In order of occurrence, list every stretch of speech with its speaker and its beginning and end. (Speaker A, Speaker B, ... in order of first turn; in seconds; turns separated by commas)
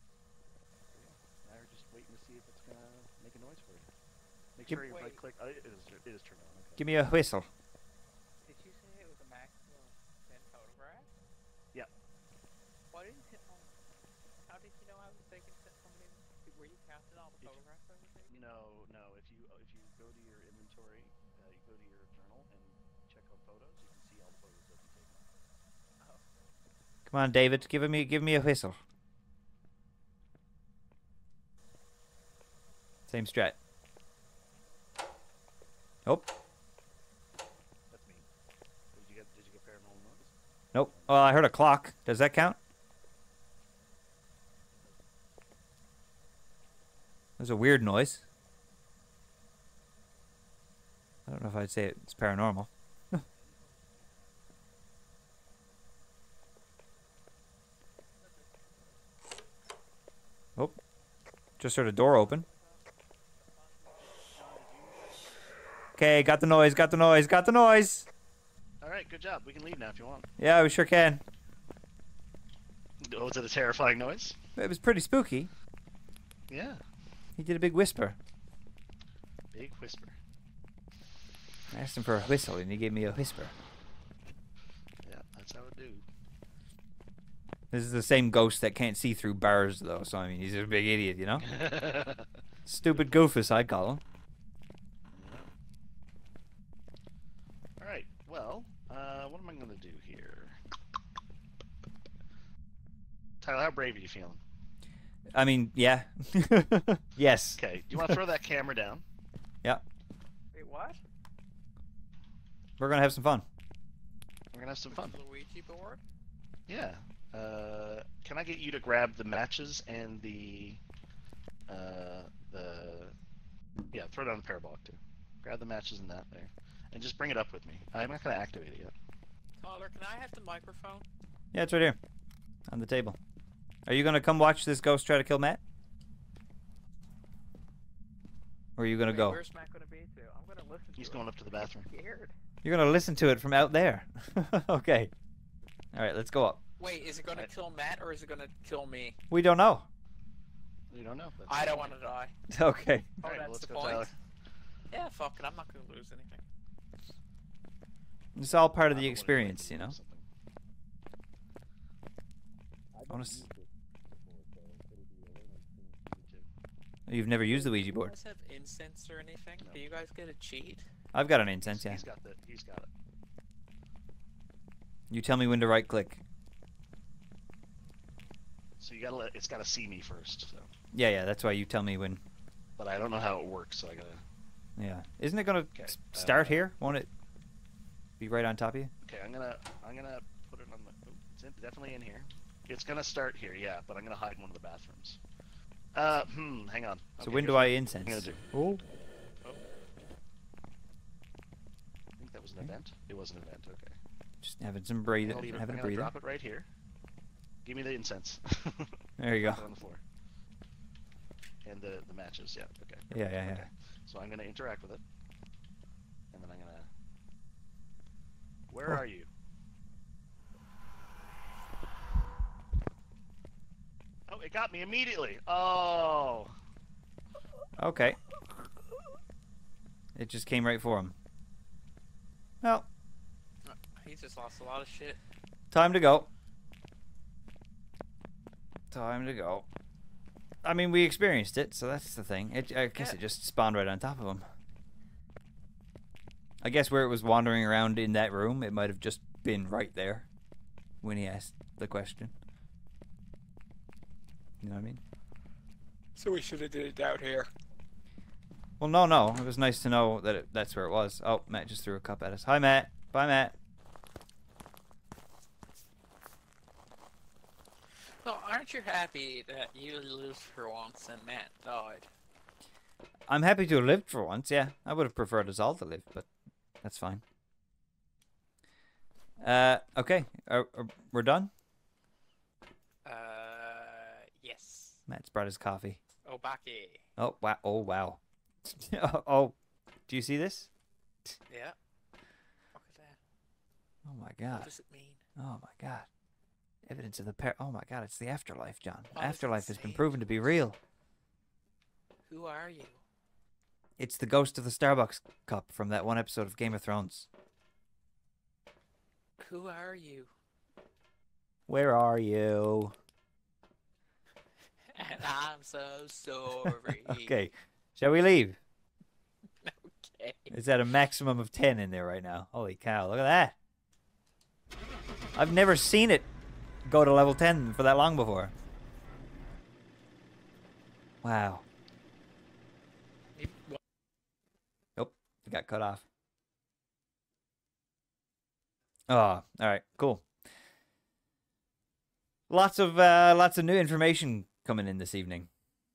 Speaker A: 0.9-3.9, Speaker A: 4.5-6.8, Speaker B: 4.7-5.2, Speaker C: 6.8-7.5, Speaker B: 8.4-11.1, Speaker B: 12.9-13.8, Speaker B: 14.4-18.4, Speaker A: 18.3-25.3, Speaker B: 26.0-26.5, Speaker C: 27.1-28.8, Speaker C: 33.1-33.5, Speaker A: 37.9-38.2, Speaker A: 38.9-40.3, Speaker C: 40.7-42.6, Speaker A: 40.9-41.2, Speaker A: 44.7-45.0, Speaker C: 47.4-48.2, Speaker C: 51.3-52.7, Speaker A: 53.5-54.3, Speaker C: 61.6-62.5, Speaker B: 63.6-64.3, Speaker A: 64.3-65.2, Speaker C: 66.0-68.1, Speaker A: 68.8-70.3, Speaker C: 70.4-71.2, Speaker A: 73.0-74.4, Speaker C: 74.5-75.5, Speaker A: 76.5-76.8, Speaker C: 77.4-78.2, Speaker A: 79.5-80.2, Speaker C: 81.7-83.5, Speaker A: 85.0-86.0, Speaker C: 87.7-91.5, Speaker A: 91.4-92.3, Speaker C: 92.7-94.0, Speaker A: 95.1-95.5, Speaker A: 97.8-100.6, Speaker A: 103.4-104.4, Speaker C: 105.3-108.2, Speaker A: 107.6-109.0, Speaker B: 110.5-111.0, Speaker C: 112.8-113.5, Speaker A: 114.5-115.2, Speaker B: 114.9-116.0, Speaker A: 116.7-120.8, Speaker A: 121.7-123.1, Speaker A: 123.9-128.9, Speaker B: 129.6-131.1, Speaker C: 131.5-132.0, Speaker C: 132.7-133.2, Speaker C: 133.9-135.6, Speaker C: 138.8-139.4, Speaker B: 139.1-142.3, Speaker A: 141.0-141.9, Speaker C: 142.6-145.1, Speaker C: 145.9-146.6, Speaker B: 146.8-149.2, Speaker C: 149.3-149.9, Speaker A: 150.9-151.9, Speaker B: 151.5-152.3, Speaker C: 152.5-153.2, Speaker A: 153.2-154.1, Speaker B: 153.2-154.1, Speaker B: 154.9-156.4, Speaker C: 158.3-159.9, Speaker A: 158.9-160.3, Speaker C: 163.1-163.5, Speaker A: 164.5-166.5, Speaker C: 167.1-168.1, Speaker B: 167.4-170.8, Speaker C: 171.1-172.0, Speaker A: 171.6-172.9, Speaker C: 175.1-176.2, Speaker A: 178.8-180.7, Speaker C: 180.9-182.2, Speaker A: 182.8-184.2, Speaker C: 184.8-187.1, Speaker A: 185.7-186.7, Speaker C: 188.2-188.9, Speaker A: 189.0-195.2, Speaker A: 195.9-198.4, Speaker C: 197.2-198.8, Speaker A: 202.2-204.0, Speaker C: 204.4-206.1, Speaker A: 205.2-206.7, Speaker A: 207.6-210.0, Speaker C: 209.2-209.6, Speaker A: 211.6-215.0, Speaker C: 213.1-213.7, Speaker A: 216.3-216.9, Speaker A: 218.7-219.3, Speaker A: 224.3-226.5, Speaker C: 227.8-228.2, Speaker C: 230.1-231.1, Speaker C: 232.6-232.9, Speaker B: 233.7-235.2, Speaker C: 235.7-236.3, Speaker C: 238.9-239.7, Speaker C: 240.6-244.4, Speaker C: 246.6-250.3, Speaker C: 251.0-252.3, Speaker C: 254.6-255.0, Speaker B: 256.1-257.5, Speaker C: 258.8-263.5, Speaker B: 268.2-272.1, Speaker C: 273.3-276.3, Speaker C: 276.8-277.2, Speaker C: 279.4-281.5, Speaker B: 283.0-285.0, Speaker C: 285.1-286.0, Speaker B: 286.2-287.0, Speaker C: 287.2-289.6, Speaker C: 290.1-290.7, Speaker B: 291.5-291.8, Speaker B: 292.7-293.2, Speaker C: 294.0-294.7, Speaker B: 294.5-295.2, Speaker C: 295.4-296.1, Speaker C: 296.8-300.8, Speaker B: 299.1-300.3, Speaker B: 302.3-303.0, Speaker C: 304.0-307.3, Speaker B: 309.4-310.3, Speaker C: 311.7-312.9, Speaker B: 314.9-317.3, Speaker C: 316.6-318.6, Speaker B: 319.6-320.5, Speaker C: 320.5-323.5, Speaker C: 325.3-326.3, Speaker C: 326.8-328.5, Speaker C: 331.2-331.6, Speaker B: 333.4-333.8, Speaker C: 334.9-336.0, Speaker C: 339.1-340.3, Speaker C: 342.5-345.5